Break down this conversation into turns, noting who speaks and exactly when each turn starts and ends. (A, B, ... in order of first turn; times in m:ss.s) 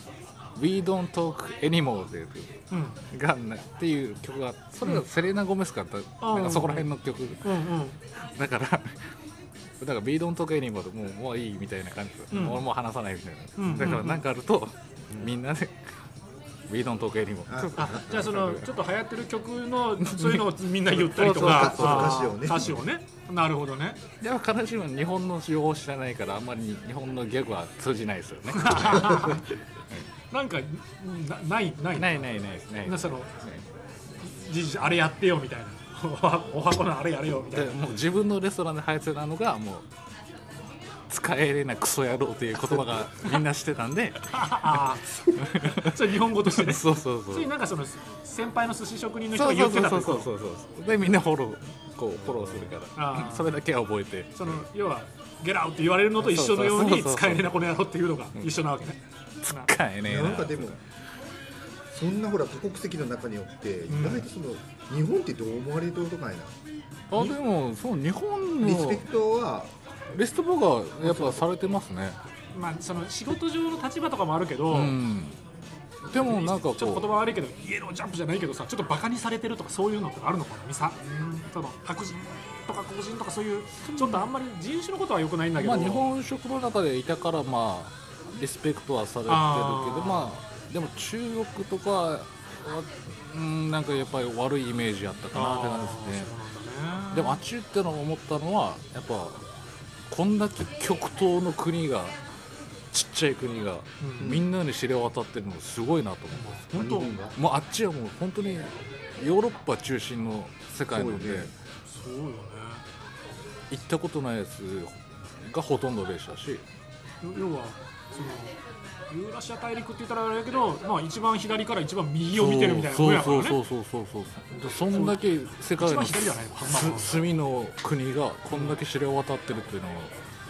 0:00.6-0:07.6 A
0:02.7-0:03.0 B
0:06.2-0:06.9 B
0:07.4-0:08.0 B
0:08.1-0:09.0 A
0:09.8-0:15.9 A
0:12.3-0:12.7 B
0:13.6-0:14.2 B
0:13.6-0:14.0 C
0:16.7-0:18.7 A
0:17.5-0:18.0 C
0:17.8-0:24.0 B
0:20.0-0:22.7 A
0:21.1-0:22.8 C
0:24.2-0:30.1 A
0:28.5-0:29.6 B
0:30.3-0:32.3 B
0:32.0-0:33.6 A
0:32.8-0:33.3 B
0:34.2-0:38.0 B
0:37.5-0:39.9 A
0:41.1-0:47.5 A
0:44.3-0:50.3 B
0:49.3-0:54.6 A
0:53.0-0:53.6 B
0:54.4-0:59.7 B
0:56.2-0:57.6 A
0:59.4-1:00.7 A
1:00.0-1:00.8 C
1:01.9-1:06.5 C
1:03.9-1:04.3 B
1:07.1-1:09.1 A
1:08.6-1:09.7 C
1:10.1-1:12.2 A
1:12.5-1:15.0 B
1:14.7-1:15.4 A
1:16.1-1:17.1 A
1:16.1-1:26.1 B
1:23.9-1:24.3 A
1:25.6-1:36.3 A
1:29.3-1:30.4 B
1:35.3-1:37.4 B
1:37.1-1:39.4 A
1:40.1-1:42.2 A
1:42.9-1:46.6 A
1:44.0-1:44.3 B
1:44.2-1:44.5 C
1:46.3-1:47.1 B
1:46.8-1:47.4 C
1:47.4-1:51.5 A
1:50.9-1:51.5 C
1:51.8-1:52.8 B
1:53.7-1:56.6 A
1:57.2-1:58.6 B
1:59.1-2:03.6 B
2:02.3-2:10.2 A
2:04.9-2:05.2 B
2:05.8-2:07.2 B
2:08.5-2:08.8 B